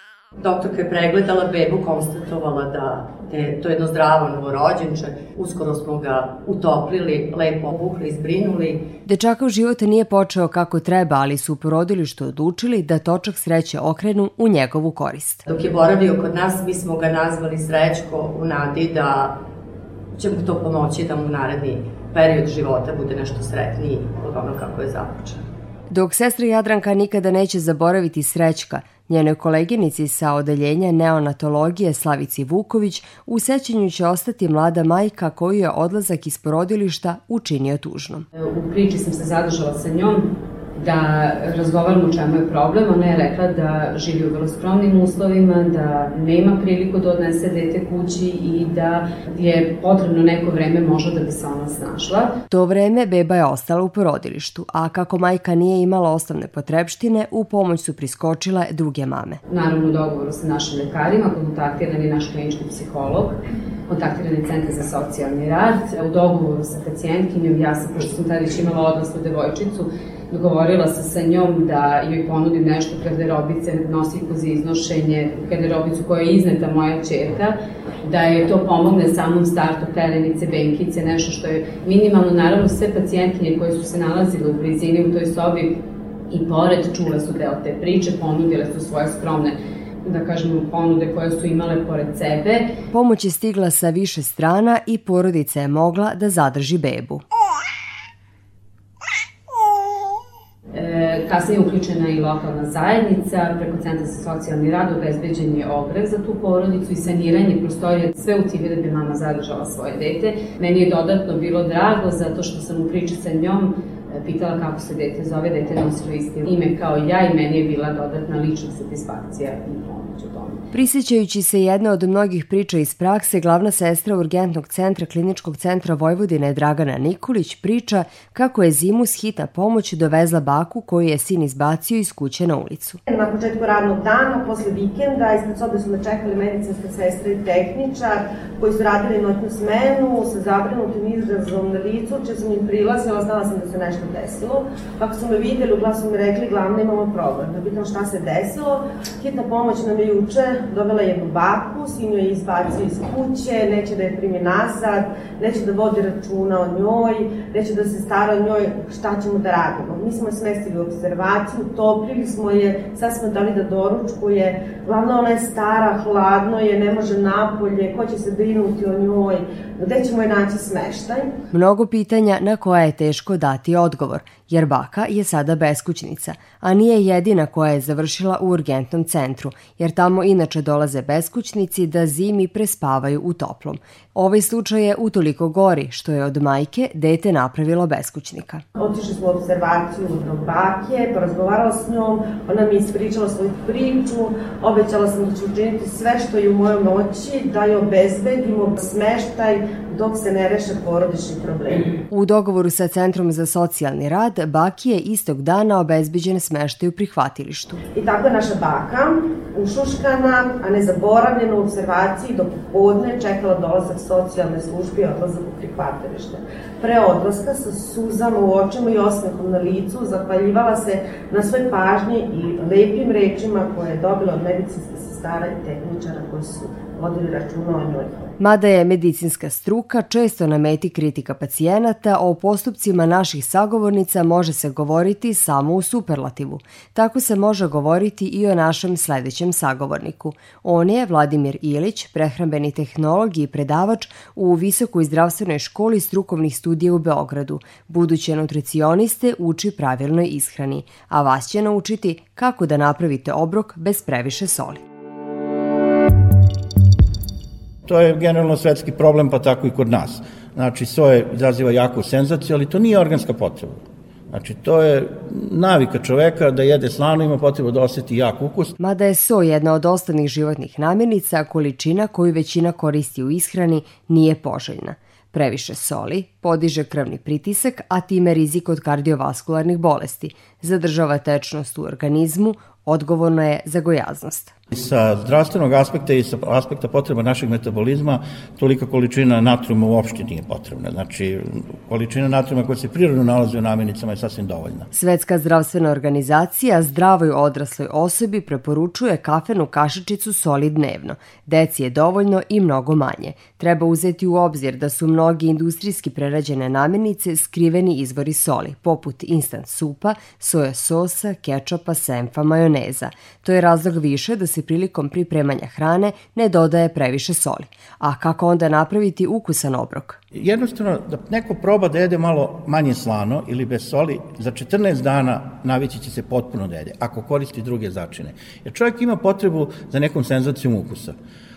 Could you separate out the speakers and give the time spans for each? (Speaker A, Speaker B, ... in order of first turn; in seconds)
Speaker A: 0.4-8.8, 15.5-19.4, 20.1-25.4
Speaker B: 9.1-15.4, 25.9-38.3, 52.5-59.4, 92.9-97.2, 120.7-133.0, 171.5-188.6, 202.1-207.8, 228.4-254.8, 268.8-284.5, 294.9-320.2
Speaker C: 38.4-52.3, 59.5-63.3, 63.9-77.5, 78.0-85.7, 86.3-92.7, 100.7-120.6
Speaker D: 133.1-171.3, 188.8-201.9, 207.9-228.3
Speaker E: 257.9-263.8, 264.3-268.8, 284.7-294.9, 320.3-331.1